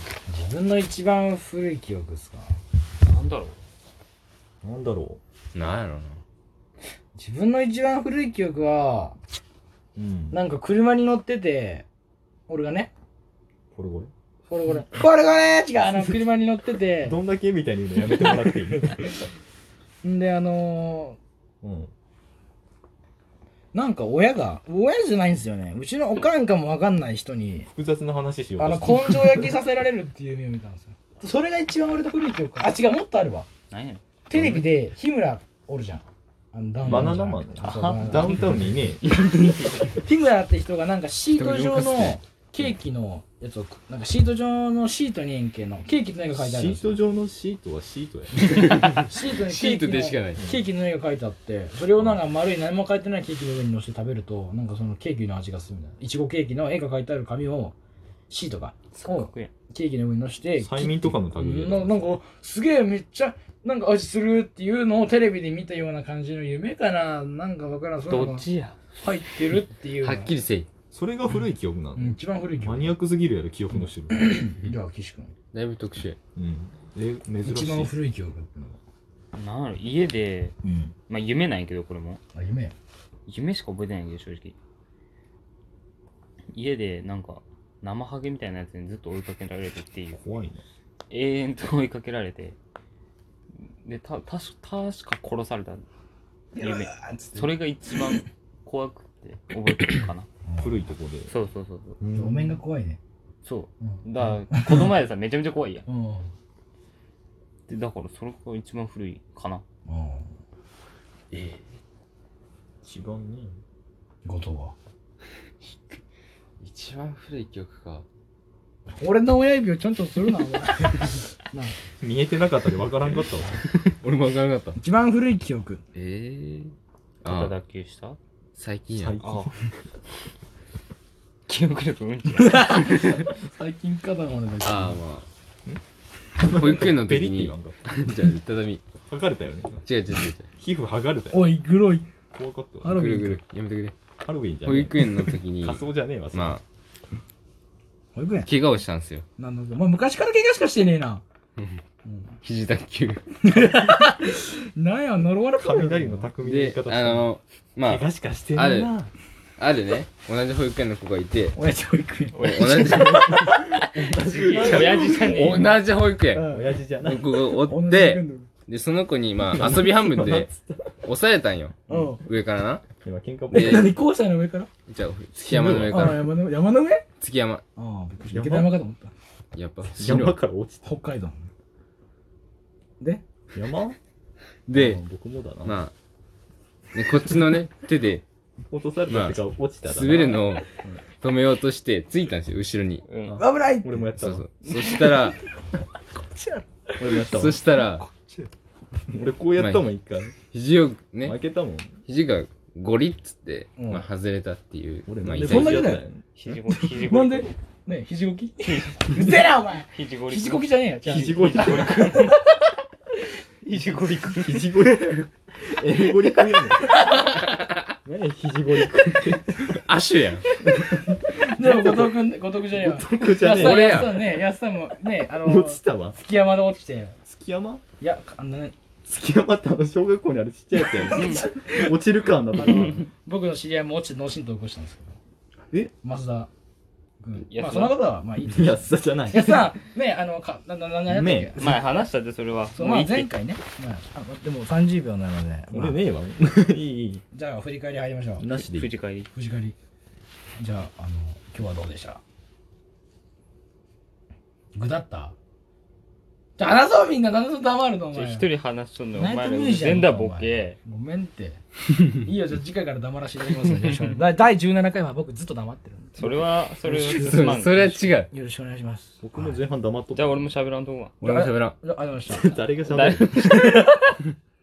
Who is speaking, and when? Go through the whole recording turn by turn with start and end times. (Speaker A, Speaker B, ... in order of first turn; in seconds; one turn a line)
Speaker A: 0.3-2.6
Speaker B: 3.0-3.6
Speaker C: 4.6-5.2
Speaker D: 5.5-6.2
Speaker A: 7.2-9.2
Speaker C: 10.0-10.4
Speaker A: 10.3-11.9
Speaker A: 12.5-12.9
Speaker C: 13.8-14.1
Speaker A: 14.5-17.2
Speaker C: 17.0-19.1
Speaker A: 18.2-19.1
Speaker A: 20.0-21.2
Speaker C: 21.6-21.9
Speaker A: 23.7-27.7
Speaker C: 27.7-29.5
Speaker A: 28.6-33.5
Speaker B: 33.7-34.0
Speaker A: 34.3-38.7
Speaker D: 34.4-34.6
Speaker C: 36.9-39.0
Speaker B: 39.1-39.9
Speaker A: 39.8-46.9
Speaker D: 41.4-42.2
Speaker C: 46.4-48.6
Speaker D: 48.5-50.4
Speaker A: 48.8-57.8
Speaker C: 50.4-50.6
Speaker C: 52.0-52.2
Speaker A: 58.3-68.5
Speaker B: 59.0-59.5
Speaker C: 60.6-62.1
Speaker B: 68.1-68.8
Speaker A: 69.0-70.4
Speaker D: 70.0-70.7
Speaker C: 70.9-74.5
Speaker A: 72.0-73.0
Speaker A: 74.1-75.3
Speaker D: 75.5-76.2
Speaker C: 76.4-77.9
Speaker A: 77.4-78.8
Speaker B: 79.4-80.5
Speaker A: 80.6-80.9
Speaker B: 81.1-82.2
Speaker A: 82.3-82.7
Speaker B: 83.3-84.6
Speaker B: 86.5-90.2
Speaker C: 90.2-90.6
Speaker B: 91.1-92.6
Speaker B: 93.6-95.8
Speaker B: 96.6-100.3
Speaker A: 96.6-97.5
Speaker A: 100.5-100.8
Speaker C: 100.6-101.3
Speaker B: 101.3-102.0
Speaker C: 102.0-102.6
Speaker A: 102.1-103.0
Speaker B: 103.4-105.9
Speaker A: 103.8-104.9
Speaker A: 105.9-106.3
Speaker B: 107.7-109.6
Speaker A: 109.9-110.3
Speaker A: 111.3-111.6
Speaker C: 112.8-113.5
Speaker A: 114.2-114.8
Speaker D: 116.6-118.1
Speaker A: 119.0-121.8
Speaker C: 122.0-123.7
Speaker D: 123.9-124.8
Speaker A: 124.8-125.8
Speaker D: 125.9-127.5
Speaker B: 127.2-128.2
Speaker D: 128.6-129.2
Speaker C: 128.9-129.7
Speaker B: 129.2-129.5
Speaker B: 131.5-133.2
Speaker A: 132.4-135.0
Speaker D: 134.6-135.3
Speaker C: 136.4-137.9
Speaker D: 136.4-138.8
Speaker C: 139.1-139.8
Speaker D: 139.8-140.5
Speaker C: 140.6-141.5
Speaker A: 141.3-142.1
Speaker C: 142.3-143.0
Speaker A: 142.8-143.4
Speaker D: 142.8-143.9
Speaker C: 144.2-146.6
Speaker D: 144.7-146.6
Speaker A: 148.2-148.5
Speaker D: 148.4-149.2
Speaker A: 149.4-151.2
Speaker D: 151.6-151.8
Speaker A: 152.1-152.4
Speaker D: 152.4-153.5
Speaker A: 153.4-156.3
Speaker C: 155.6-157.3
Speaker D: 156.4-158.0
Speaker C: 157.8-159.1
Speaker D: 158.6-158.9
Speaker D: 159.6-161.6
Speaker A: 161.6-163.4
Speaker D: 162.4-166.5
Speaker C: 162.8-165.6
Speaker B: 164.3-165.7
Speaker A: 166.3-166.7
Speaker C: 166.4-167.4
Speaker D: 167.0-170.5
Speaker A: 167.6-168.5
Speaker C: 169.4-171.0
Speaker D: 171.0-172.9
Speaker A: 171.9-172.2
Speaker C: 171.9-172.2
Speaker C: 173.0-173.9
Speaker A: 173.5-174.7
Speaker D: 173.5-173.9
Speaker D: 174.9-176.3
Speaker C: 175.3-176.3
Speaker A: 175.9-177.1
Speaker D: 177.2-177.6
Speaker A: 177.8-179.1
Speaker C: 178.3-178.7
Speaker D: 179.5-180.4
Speaker C: 179.9-181.0
Speaker A: 180.8-181.5
Speaker C: 183.6-184.0
Speaker D: 184.7-185.0
Speaker A: 184.7-185.0
Speaker C: 184.8-185.8
Speaker D: 185.6-185.9
Speaker D: 186.9-188.3
Speaker C: 188.7-191.0
Speaker D: 189.1-193.1
Speaker B: 193.1-193.4
Speaker C: 193.3-194.5
Speaker A: 193.4-194.1
Speaker D: 194.2-195.4
Speaker A: 194.7-195.3
Speaker A: 196.2-198.5
Speaker C: 197.0-197.6
Speaker D: 197.2-198.1
Speaker C: 199.1-200.4
Speaker D: 199.6-199.9
Speaker D: 200.4-201.4
Speaker C: 201.2-201.9
Speaker D: 202.1-205.9
Speaker A: 203.8-204.1
Speaker C: 205.1-206.6
Speaker A: 205.4-206.0
Speaker B: 206.4-207.5
Speaker A: 206.7-212.4
Speaker B: 208.6-212.4
Speaker C: 211.1-212.2
Speaker B: 213.7-214.9
Speaker C: 213.8-217.0
Speaker D: 217.4-217.7
Speaker C: 218.1-219.8
Speaker D: 219.7-220.6
Speaker C: 220.6-224.1
Speaker A: 221.1-227.2
Speaker D: 223.4-224.1
Speaker C: 225.3-226.2
Speaker C: 227.3-227.8
Speaker A: 228.0-228.8
Speaker C: 229.1-233.1
Speaker A: 231.0-231.8
Speaker B: 231.1-231.5
Speaker A: 232.6-235.2
Speaker A: 236.0-236.5
Speaker A: 237.2-241.8
Speaker B: 237.4-238.0
Speaker C: 238.4-239.8
Speaker C: 241.1-241.8
Speaker B: 241.6-243.3
Speaker A: 242.8-246.0
Speaker C: 245.7-247.2
Speaker A: 247.3-248.5
Speaker C: 248.4-248.9
Speaker B: 248.6-249.3
Speaker A: 249.3-249.8
Speaker A: 250.6-252.2
Speaker A: 254.8-255.4
Speaker A: 256.6-258.5
Speaker B: 258.1-260.8
Speaker A: 259.1-261.6
Speaker A: 262.1-266.3
Speaker B: 263.6-264.2
Speaker B: 266.2-268.0
Speaker A: 266.8-269.6
Speaker D: 267.1-268.3
Speaker C: 269.2-270.5
Speaker B: 270.1-271.1
Speaker D: 271.2-271.8
Speaker A: 271.2-272.6
Speaker C: 272.3-273.8
Speaker B: 272.9-273.8
Speaker A: 273.4-274.2